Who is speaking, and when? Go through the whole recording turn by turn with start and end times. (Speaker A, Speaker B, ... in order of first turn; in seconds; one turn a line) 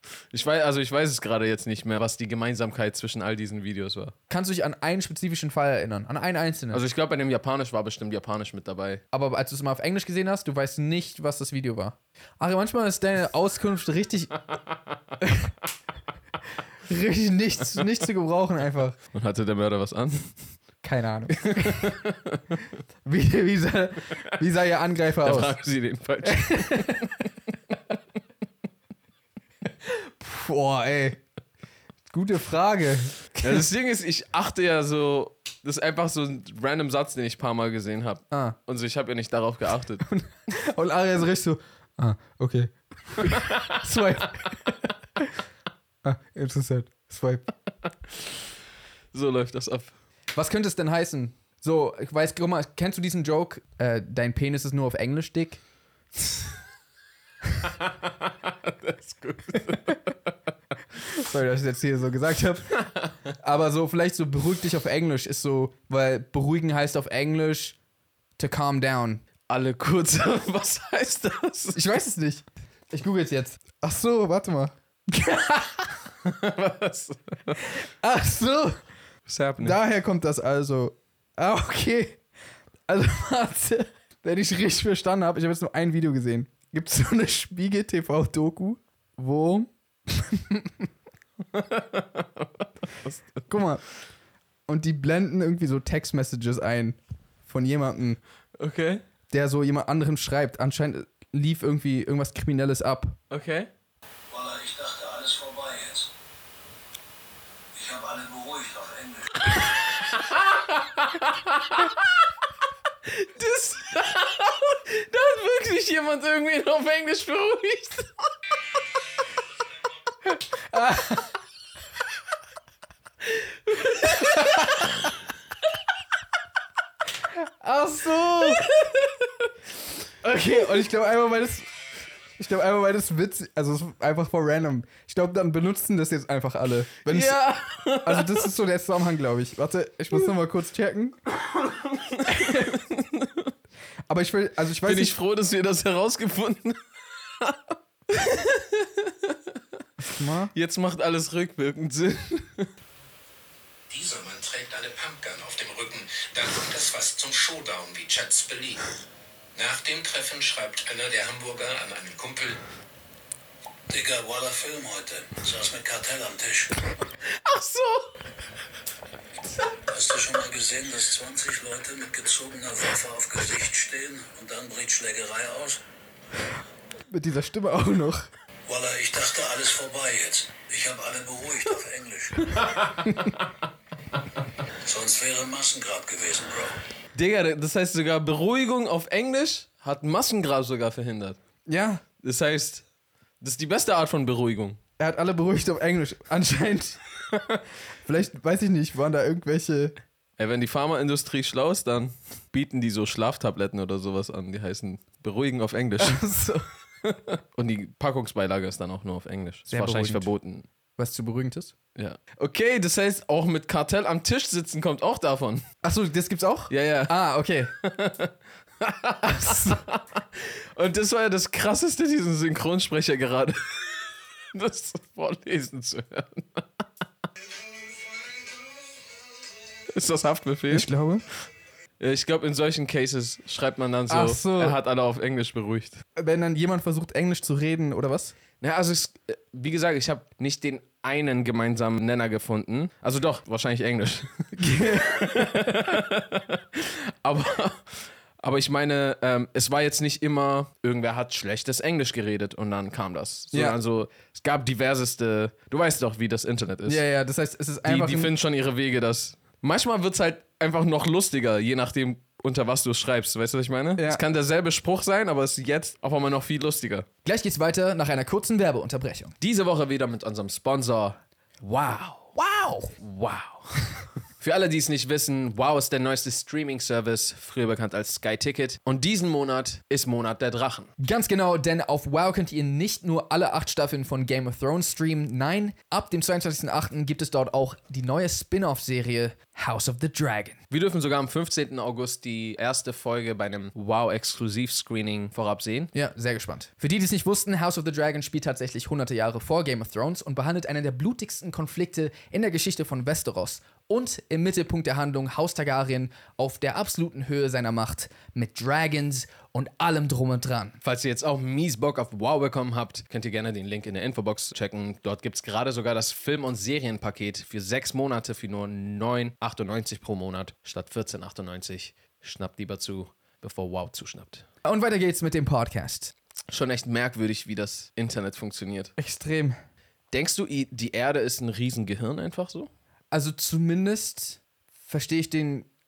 Speaker A: 0.3-4.1
Speaker B: 4.3-6.8
Speaker A: 6.7-9.0
Speaker B: 9.1-14.3
Speaker B: 15.2-15.5
Speaker B: 16.8-19.0
Speaker A: 19.1-20.4
Speaker B: 20.8-22.0
Speaker A: 21.3-22.7
Speaker B: 23.0-25.6
Speaker A: 25.2-27.3
Speaker B: 26.2-27.1
Speaker B: 29.8-31.2
Speaker B: 32.1-33.6
Speaker A: 33.4-40.1
Speaker B: 38.3-38.6
Speaker B: 40.0-45.3
Speaker A: 43.2-44.1
Speaker B: 46.0-47.5
Speaker A: 48.1-48.4
Speaker A: 49.1-49.9
Speaker B: 50.3-55.6
Speaker A: 57.6-60.1
Speaker B: 61.1-62.8
Speaker A: 62.8-63.1
Speaker B: 63.3-67.8
Speaker B: 68.4-69.2
Speaker A: 69.5-71.8
Speaker B: 71.7-76.0
Speaker A: 76.2-77.7
Speaker B: 77.7-78.8
Speaker A: 79.2-79.8
Speaker B: 79.6-82.2
Speaker B: 82.9-90.9
Speaker A: 91.5-93.5
Speaker B: 93.5-93.8
Speaker B: 94.7-98.2
Speaker A: 98.6-99.0
Speaker B: 99.3-103.2
Speaker A: 103.3-103.7
Speaker C: 104.3-106.1
Speaker C: 107.7-109.6
Speaker A: 110.1-112.1
Speaker A: 113.0-118.1
Speaker B: 120.7-121.4
Speaker A: 124.0-124.6
Speaker B: 124.0-124.9
Speaker B: 127.3-128.8
Speaker A: 128.5-129.5
Speaker B: 130.2-131.7
Speaker B: 132.4-137.5
Speaker A: 137.1-138.5
Speaker B: 138.0-141.2
Speaker A: 141.6-143.5
Speaker B: 142.3-142.6
Speaker B: 144.1-145.1
Speaker A: 144.8-146.8
Speaker A: 147.4-149.6
Speaker B: 150.0-150.5
Speaker A: 150.5-152.7
Speaker D: 153.9-158.8
Speaker D: 159.5-162.6
Speaker C: 163.9-166.8
Speaker A: 167.2-168.1
Speaker C: 169.9-175.8
Speaker B: 177.1-178.3
Speaker C: 178.7-182.9
Speaker C: 184.8-186.8
Speaker A: 187.1-191.4
Speaker B: 191.7-192.0
Speaker A: 192.2-192.8
Speaker A: 193.4-194.8
Speaker B: 195.0-197.0
Speaker B: 198.0-199.9
Speaker A: 200.4-206.2
Speaker B: 206.0-206.7
Speaker A: 207.0-210.7
Speaker B: 209.7-210.3
Speaker B: 211.0-211.7
Speaker A: 211.9-215.7
Speaker B: 215.8-217.7
Speaker A: 216.7-217.2
Speaker A: 217.8-226.8
Speaker B: 219.3-219.8
Speaker A: 229.9-230.9
Speaker B: 230.7-231.2
Speaker A: 232.0-236.0
Speaker B: 234.1-234.8
Speaker B: 236.2-238.3
Speaker A: 238.6-257.0
Speaker B: 244.6-245.7
Speaker B: 253.5-253.8
Speaker B: 256.9-258.3
Speaker A: 257.8-267.1
Speaker B: 264.0-264.2
Speaker B: 267.2-269.3
Speaker A: 269.4-272.3
Speaker B: 272.3-272.9
Speaker A: 272.9-280.9
Speaker B: 281.0-290.6
Speaker A: 290.7-295.9
Speaker B: 295.9-310.8
Speaker A: 310.8-324.5
Speaker B: 324.6-326.1
Speaker A: 326.5-328.9
Speaker B: 329.0-329.6
Speaker A: 330.1-332.7
Speaker B: 333.1-335.7